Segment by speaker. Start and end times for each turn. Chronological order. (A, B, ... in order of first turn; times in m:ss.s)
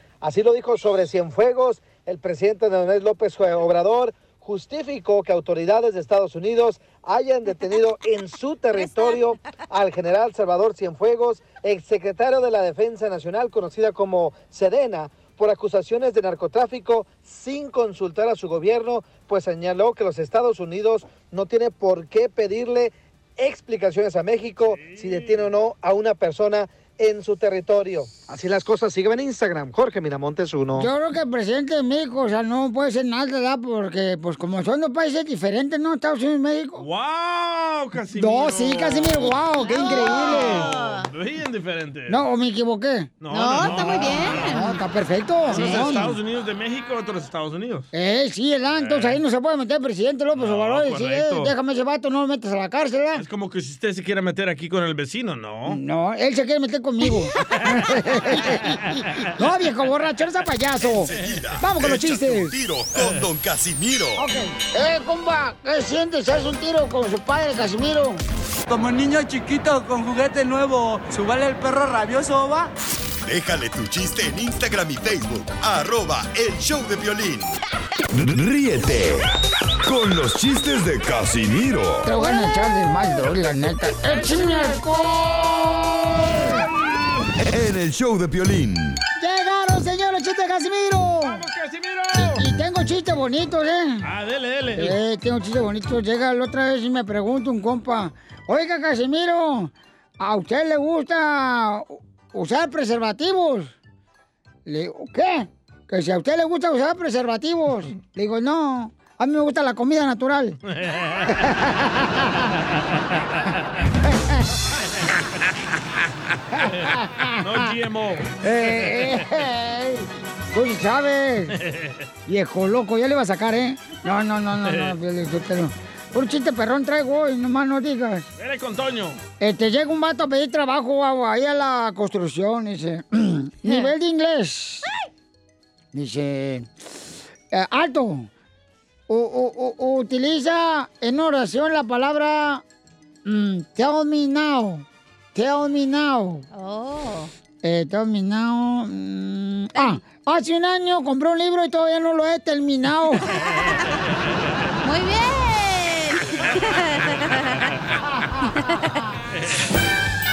0:00.2-0:30.9 A
0:08.8-0:09.2 B
0:24.6-0:25.5 C
0:30.7-0:36.9 D
0:36.8-0:42.2 C
0:38.2-0:40.7 D
0:39.6-0:41.1 B
0:42.1-0:46.2 D
0:43.2-0:44.6 C
0:43.3-0:44.8 B
0:45.5-0:47.9 C
0:45.6-0:45.9 B
0:47.9-0:53.3 D
0:48.8-0:49.2 C
0:50.3-0:51.5 C
0:53.1-0:55.8 C
0:55.7-1:02.6 D
0:58.4-0:59.3 C
1:00.9-1:04.2 E
1:01.0-1:01.5 C
1:04.2-1:08.2 D
1:08.7-1:12.7 F
1:13.2-1:17.6 E
1:18.1-1:19.3 E
1:19.8-1:22.1 E
1:22.0-1:26.6 D
1:27.4-1:29.0 E
1:29.2-1:31.4 D
1:31.2-1:32.4 C
1:32.2-1:34.1 D
1:34.0-1:35.0 C
1:34.8-1:43.7 D
1:44.6-1:50.6 D
1:50.7-1:51.3 C
1:51.3-1:52.5 D
1:53.1-1:53.6 C
1:54.0-1:54.6 D
1:56.6-1:57.8 D
1:56.6-1:58.3 C
1:58.4-2:01.6 D
2:01.5-2:02.0 C
2:02.3-2:08.3 D
2:04.6-2:04.9 C
2:08.4-2:09.2 C
2:09.4-2:14.9 D
2:13.6-2:13.9 B
2:15.9-2:16.7 D
2:17.5-2:18.3 D
2:19.1-2:22.6 D
2:23.2-2:26.4 D
2:26.5-2:27.3 B
2:27.6-2:33.3 D
2:29.7-2:30.0 B
2:34.8-2:37.7 B
2:38.2-2:38.4 D
2:38.5-2:39.1 B